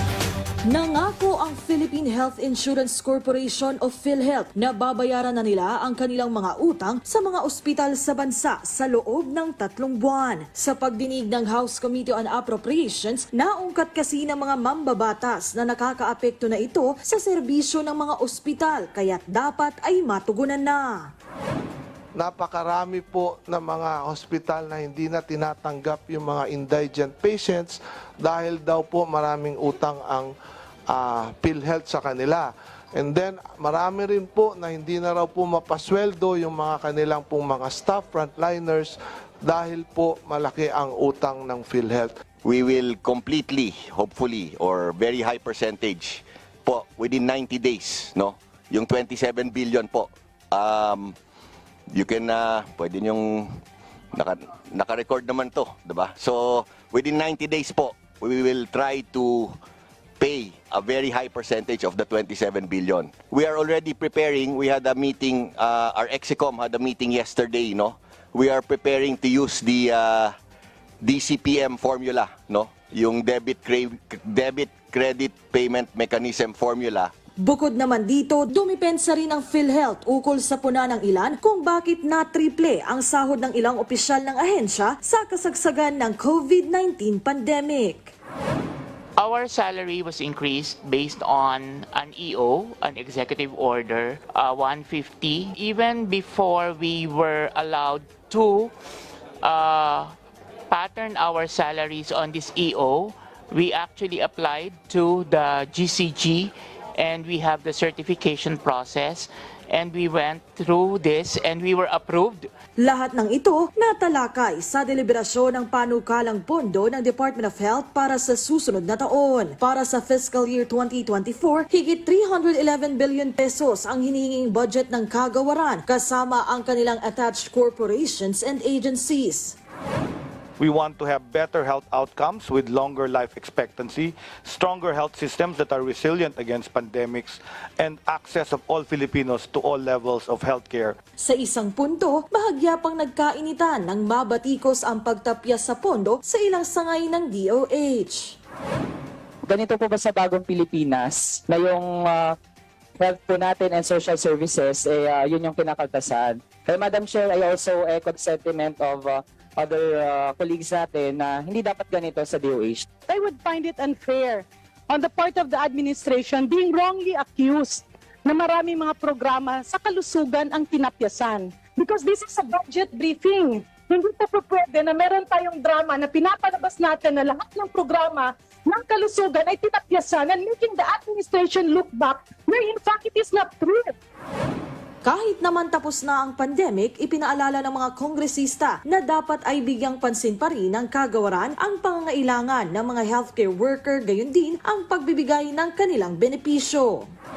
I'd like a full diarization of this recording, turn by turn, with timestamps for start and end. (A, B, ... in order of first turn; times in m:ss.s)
0:00.7-0:21.1 A
0:22.2-0:30.3 B
0:30.9-0:42.1 B
0:42.4-0:51.1 C
0:51.9-0:53.6 C
0:54.1-0:59.6 C
1:00.2-1:10.3 C
1:11.0-1:17.1 C
1:17.4-1:28.1 A
1:29.2-1:38.7 D
1:39.4-1:40.2 D
1:40.7-1:52.5 D
1:52.8-2:09.6 A
2:10.6-2:21.0 E
2:21.2-2:28.4 A
2:29.4-2:32.4 F
2:33.0-2:42.9 F
2:43.1-3:03.9 G
3:05.0-3:17.1 A